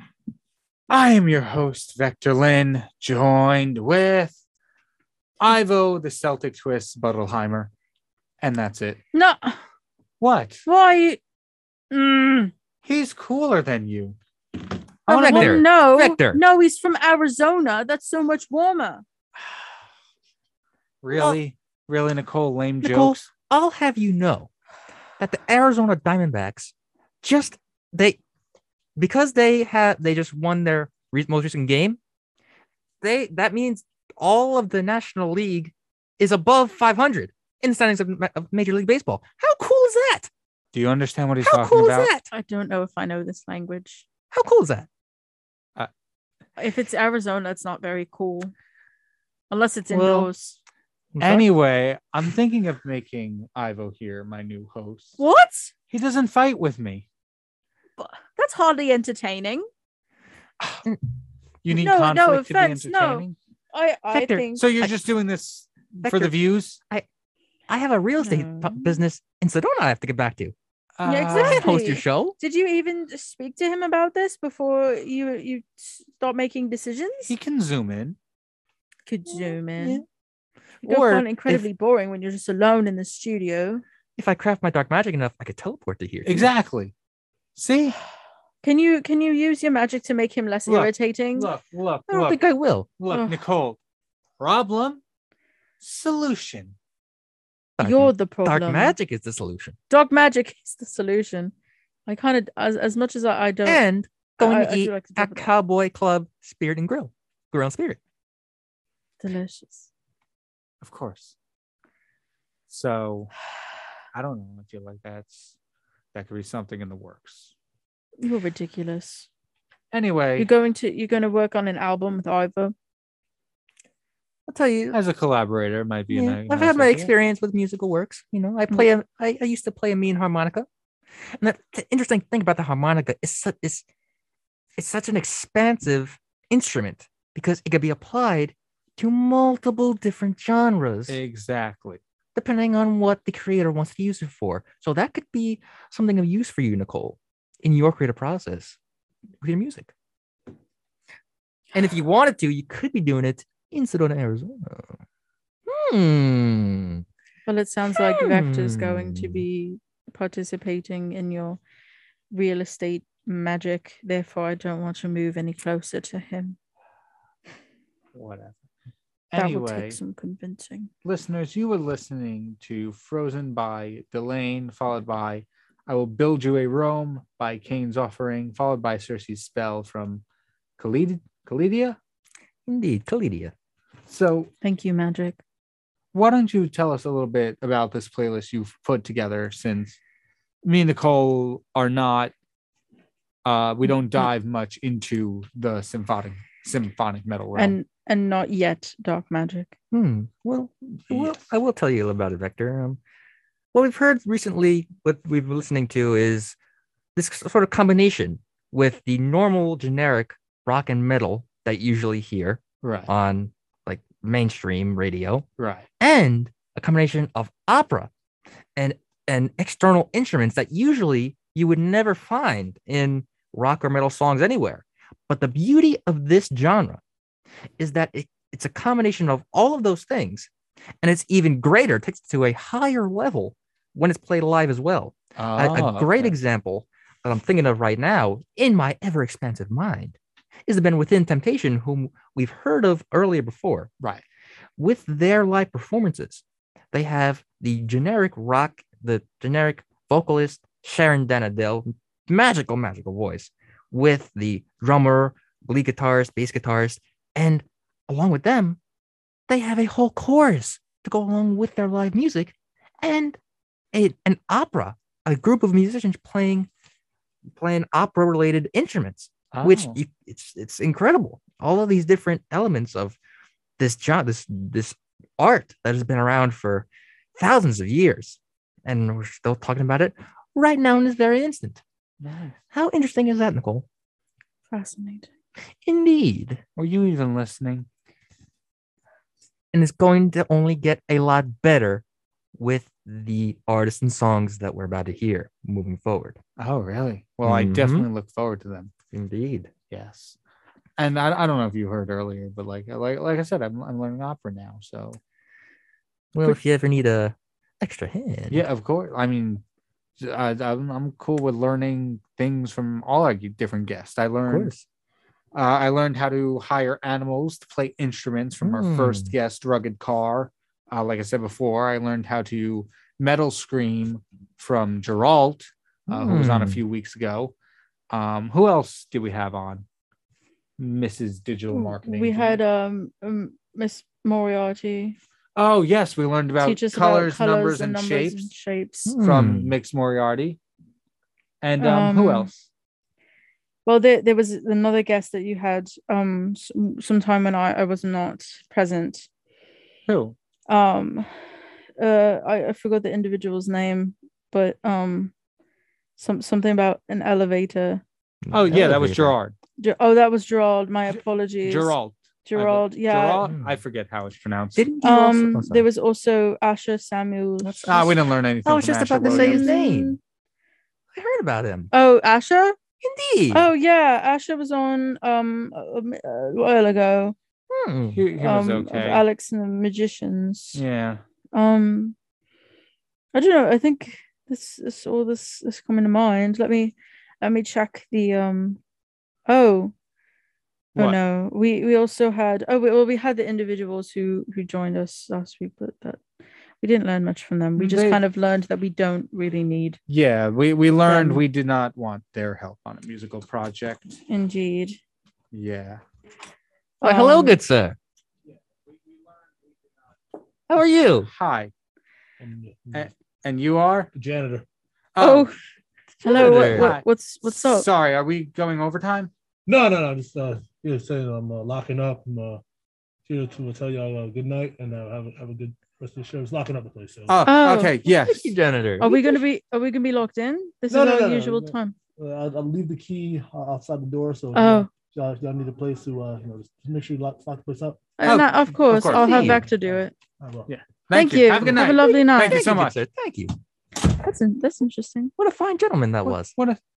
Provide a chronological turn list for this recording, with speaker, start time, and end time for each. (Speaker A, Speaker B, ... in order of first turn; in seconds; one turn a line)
Speaker A: 0.9-4.4
Speaker A: 5.4-7.7
Speaker A: 8.4-9.0
Speaker B: 9.1-9.6
Speaker A: 10.2-10.6
Speaker B: 10.7-11.2
Speaker B: 11.9-12.5
Speaker A: 12.8-14.2
Speaker A: 15.1-15.6
Speaker C: 15.1-16.4
Speaker B: 15.1-19.0
Speaker A: 21.0-23.3
Speaker C: 21.1-21.4
Speaker C: 22.8-24.5
Speaker C: 25.2-28.2
Speaker C: 29.0-32.0
Speaker C: 33.0-40.3
Speaker A: 40.7-42.1
Speaker C: 41.4-42.3
Speaker B: 42.3-44.1
Speaker C: 44.3-44.9
Speaker B: 46.6-48.5
Speaker B: 49.5-50.6
Speaker C: 49.9-50.3
Speaker C: 51.1-51.5
Speaker A: 51.2-55.2
Speaker B: 55.2-55.7
Speaker A: 55.9-57.0
Speaker B: 58.0-59.6
Speaker A: 61.6-63.4
Speaker B: 61.7-64.6
Speaker C: 64.1-64.9
Speaker A: 64.5-66.8
Speaker C: 66.0-66.3
Speaker C: 67.7-70.5
Speaker B: 68.2-69.0
Speaker A: 71.0-71.7
Speaker B: 71.0-77.3
Speaker C: 71.3-72.4
Speaker A: 77.3-78.2
Speaker B: 79.1-80.0
Speaker C: 79.3-80.0
Speaker C: 80.8-81.6
Speaker B: 80.8-83.8
Speaker C: 84.2-86.5
Speaker A: 86.2-86.9
Speaker A: 87.5-87.9
Speaker B: 88.6-91.5
Speaker A: 90.7-92.4
Speaker C: 92.1-92.9
Speaker A: 93.0-93.8
Speaker B: 93.1-93.4
Speaker A: 94.4-95.0
Speaker A: 95.8-96.7
Speaker C: 97.8-99.8
Speaker B: 97.8-99.0
Speaker B: 99.9-101.5
Speaker B: 102.1-103.8
Speaker C: 103.7-108.0
Speaker B: 104.4-105.5
Speaker B: 109.2-109.9
Speaker A: 110.8-111.3
Speaker A: 112.7-113.3
Speaker A: 114.1-115.5
Speaker A: 116.1-117.5
Speaker B: 118.2-119.3
Speaker A: 119.9-120.5
Speaker B: 120.4-122.7
Speaker C: 124.5-125.0
Speaker A: 124.9-127.1
Speaker C: 126.1-130.7
Speaker C: 131.4-133.8
Speaker C: 134.8-141.2
Speaker A: 141.1-142.0
Speaker C: 142.3-148.8
Speaker C: 149.4-149.9
Speaker C: 151.7-155.0
Speaker C: 155.7-157.0
Speaker B: 157.4-161.6
Speaker C: 158.0-159.4
Speaker B: 162.3-166.6
Speaker A: 168.1-168.6
Speaker A: 169.3-170.0
Speaker B: 169.3-170.9
Speaker A: 171.0-180.2
Speaker A: 180.8-182.0
Speaker C: 182.7-183.5
Speaker A: 184.1-184.5
Speaker B: 184.6-185.4
Speaker A: 186.1-190.0
Speaker A: 190.6-192.3
Speaker A: 193.4-197.8
Speaker B: 197.5-199.7
Speaker C: 199.9-203.0
Speaker A: 201.1-201.4
Speaker C: 203.7-206.6
Speaker C: 207.2-215.5
Speaker A: 212.8-213.1
Speaker A: 215.6-215.8
Speaker C: 216.0-218.1
Speaker C: 218.8-227.0
Speaker C: 227.8-230.5
Speaker C: 231.0-243.9
Speaker A: 235.4-236.3
Speaker C: 244.8-258.8
Speaker C: 259.5-263.4
Speaker C: 263.9-266.7
Speaker C: 267.6-273.2
Speaker A: 269.5-270.0
Speaker C: 273.8-281.8
Speaker A: 282.2-282.6
Speaker C: 282.7-283.9
Speaker B: 284.7-285.3
Speaker C: 285.8-286.6
Speaker A: 286.8-287.9
Speaker C: 289.7-292.0
Speaker C: 292.6-296.4
Speaker A: 296.6-298.9
Speaker C: 297.4-298.1
Speaker C: 299.1-299.7
Speaker A: 299.9-300.4
Speaker A: 301.0-305.2
Speaker C: 306.3-308.6
Speaker A: 308.5-309.6
Speaker A: 310.2-314.7
Speaker C: 314.5-314.8
Speaker A: 315.5-327.5
Speaker C: 318.6-319.3
Speaker C: 326.1-326.8
Speaker A: 328.1-329.8
Speaker A: 330.8-332.6
Speaker B: 331.7-335.1
Speaker A: 335.6-338.5
Speaker B: 336.6-339.1
Speaker C: 339.1-339.7
Speaker A: 339.2-340.6
Speaker A: 341.6-342.6
Speaker B: 341.8-342.5
Speaker B: 343.9-349.3
Speaker A: 350.1-350.4
Speaker B: 350.7-351.3
Speaker B: 352.0-355.3
Speaker B: 356.2-358.0
Speaker C: 358.4-359.3
Speaker A: 358.5-359.5
Speaker B: 359.8-361.9
Speaker A: 361.6-364.9
Speaker B: 362.4-363.5
Speaker C: 363.5-363.8
Speaker C: 364.8-365.8
Speaker B: 365.0-368.0
Speaker C: 367.6-368.1
Speaker A: 367.8-369.7
Speaker C: 368.6-370.2
Speaker B: 369.2-370.2
Speaker C: 371.1-371.9
Speaker B: 371.9-372.8
Speaker C: 373.0-373.7
Speaker B: 373.5-377.3
Speaker C: 377.7-378.2
Speaker A: 378.1-379.2
Speaker B: 378.4-380.8
Speaker A: 380.7-381.2
Speaker B: 381.5-382.1
Speaker B: 383.3-388.8
Speaker B: 389.5-389.9
Speaker B: 390.9-396.2
Speaker B: 396.8-400.0
Speaker A: 397.8-398.2
Speaker A: 400.1-404.1
Speaker B: 401.0-401.4
Speaker B: 404.3-405.0
Speaker A: 405.5-406.0
Speaker B: 407.0-407.6
Speaker C: 407.0-408.0
Speaker C: 410.7-411.3
Speaker A: 411.3-411.7
Speaker D: 412.4-413.1
Speaker A: 412.9-414.1
Speaker D: 414.1-414.6
Speaker A: 415.1-415.5
Speaker B: 415.2-415.5
Speaker C: 416.2-416.9
Speaker B: 416.2-417.9
Speaker A: 416.2-419.3
Speaker D: 419.7-422.6
Speaker D: 423.2-427.4
Speaker A: 427.3-428.5
Speaker B: 427.4-428.0
Speaker C: 428.0-429.4
Speaker B: 429.0-431.9
Speaker D: 430.9-438.0
Speaker B: 434.5-434.9
Speaker B: 438.2-440.1
Speaker A: 438.2-439.6
Speaker C: 438.9-439.6
Speaker D: 439.8-440.7
Speaker A: 440.7-443.0
Speaker B: 441.1-442.6
Speaker C: 441.7-443.5
Speaker B: 444.0-445.3
Speaker C: 445.4-446.5
Speaker A: 446.2-446.8